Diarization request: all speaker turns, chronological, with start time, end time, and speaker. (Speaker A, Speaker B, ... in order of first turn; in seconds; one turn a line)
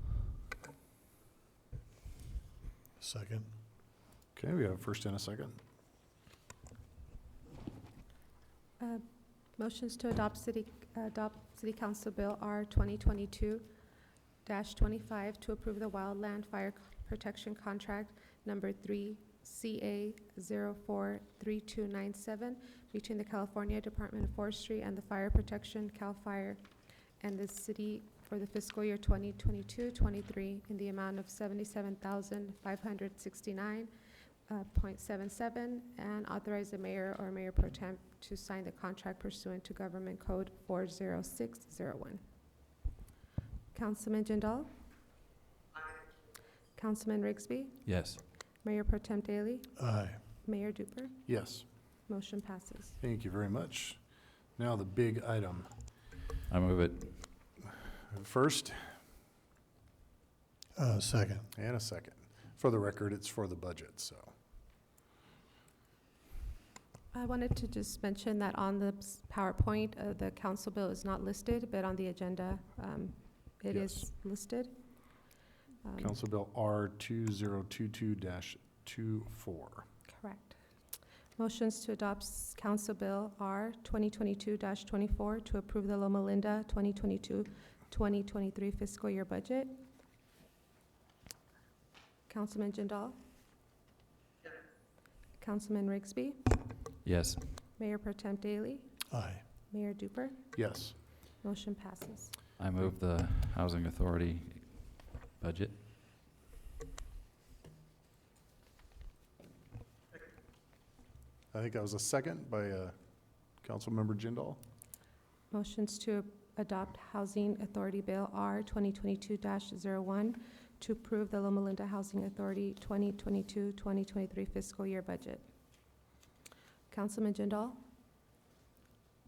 Speaker A: 3.0-3.5
Speaker B: 4.3-5.6
Speaker C: 9.6-13.7
Speaker C: 14.4-26.6
Speaker C: 27.2-33.9
Speaker C: 34.5-42.2
Speaker C: 43.7-44.7
Speaker C: 46.8-47.8
Speaker D: 47.9-48.2
Speaker C: 48.6-49.7
Speaker A: 49.8-50.2
Speaker C: 50.4-51.2
Speaker B: 51.3-51.6
Speaker C: 52.1-53.0
Speaker B: 53.0-54.0
Speaker B: 54.6-55.7
Speaker D: 56.5-57.3
Speaker B: 58.1-58.9
Speaker A: 60.7-61.5
Speaker B: 61.5-64.3
Speaker C: 67.1-74.7
Speaker B: 73.7-74.0
Speaker C: 75.8-76.1
Speaker B: 76.0-79.8
Speaker C: 80.1-80.6
Speaker C: 81.4-89.8
Speaker C: 92.3-93.2
Speaker C: 95.4-96.7
Speaker D: 97.0-97.6
Speaker C: 97.8-99.0
Speaker A: 99.1-99.5
Speaker C: 99.7-100.5
Speaker B: 100.5-101.0
Speaker C: 101.4-102.3
Speaker D: 102.6-105.7
Speaker B: 111.5-112.9
Speaker B: 113.6-114.6
Speaker C: 115.5-125.5
Speaker C: 126.9-127.8